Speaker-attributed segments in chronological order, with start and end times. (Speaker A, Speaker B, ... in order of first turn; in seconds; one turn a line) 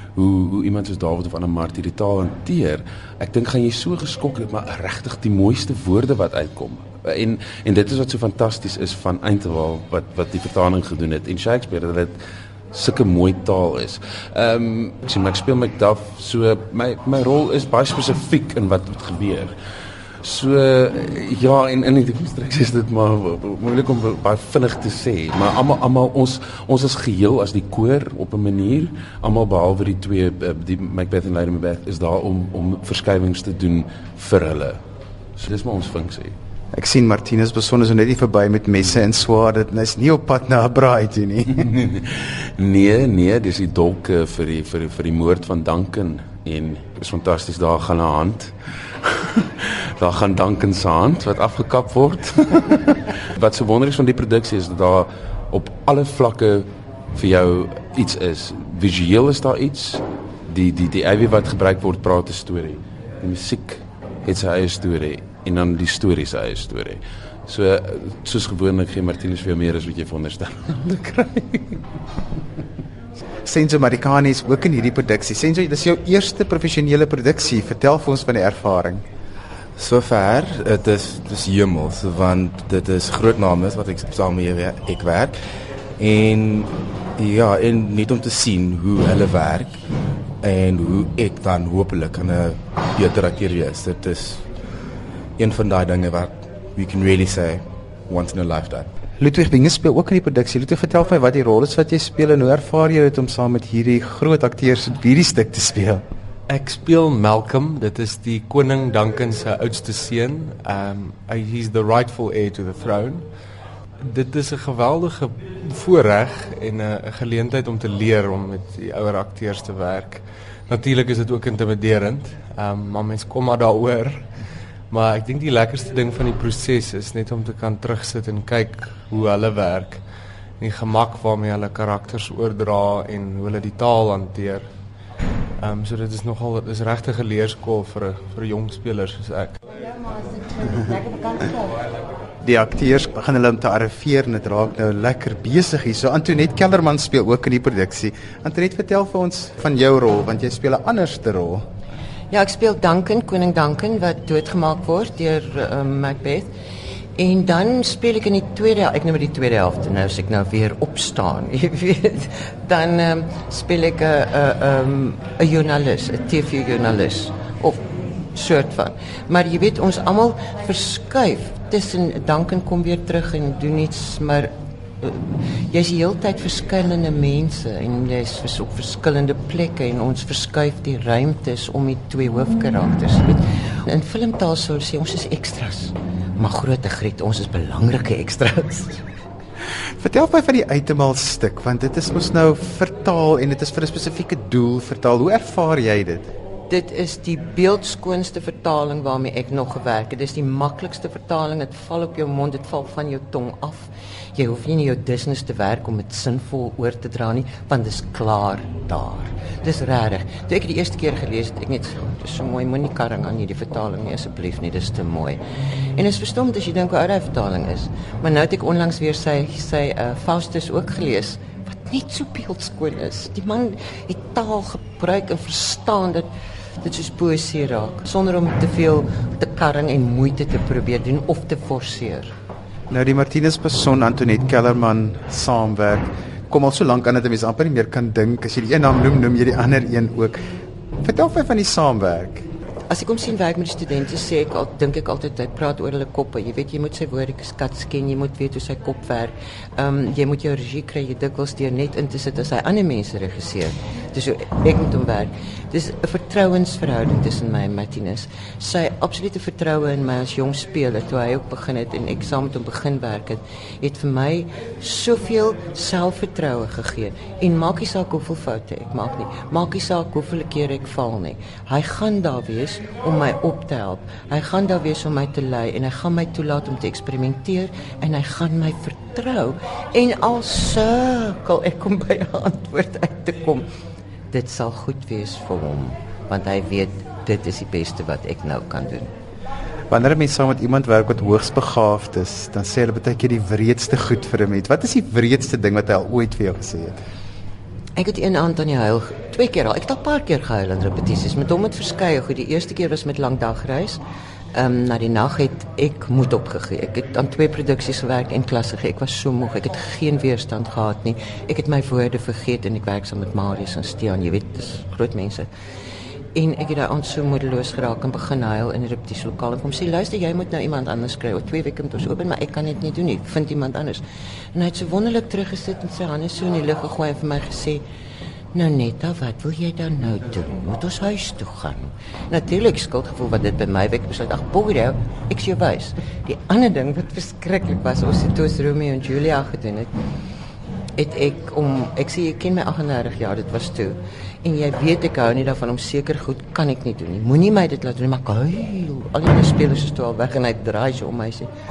Speaker A: 0.2-12.1
Speaker A: 12.7-19.5
Speaker A: 20.2-34.8
Speaker A: 35.4-36.3
Speaker B: 36.7-41.7
Speaker A: 41.7-71.8
Speaker B: 73.5-79.0
Speaker C: 79.8-89.9
Speaker C: 90.4-94.5
Speaker C: 95.4-98.9
Speaker B: 99.2-106.0
Speaker D: 106.5-134.9
Speaker D: 135.6-139.6
Speaker B: 142.4-151.7
Speaker E: 152.3-156.5
Speaker E: 157.2-167.8
Speaker E: 168.3-174.5
Speaker E: 175.0-189.0
Speaker B: 190.0-196.3
Speaker E: 196.7-215.4
Speaker E: 216.0-226.3
Speaker E: 226.8-232.3
Speaker B: 232.9-240.4
Speaker B: 241.0-242.5
Speaker E: 242.9-283.6
Speaker E: 284.3-289.1
Speaker B: 289.9-297.0
Speaker E: 298.0-304.0
Speaker E: 304.5-315.5
Speaker E: 316.4-324.0
Speaker E: 324.6-327.8
Speaker E: 328.5-339.9
Speaker E: 341.0-351.5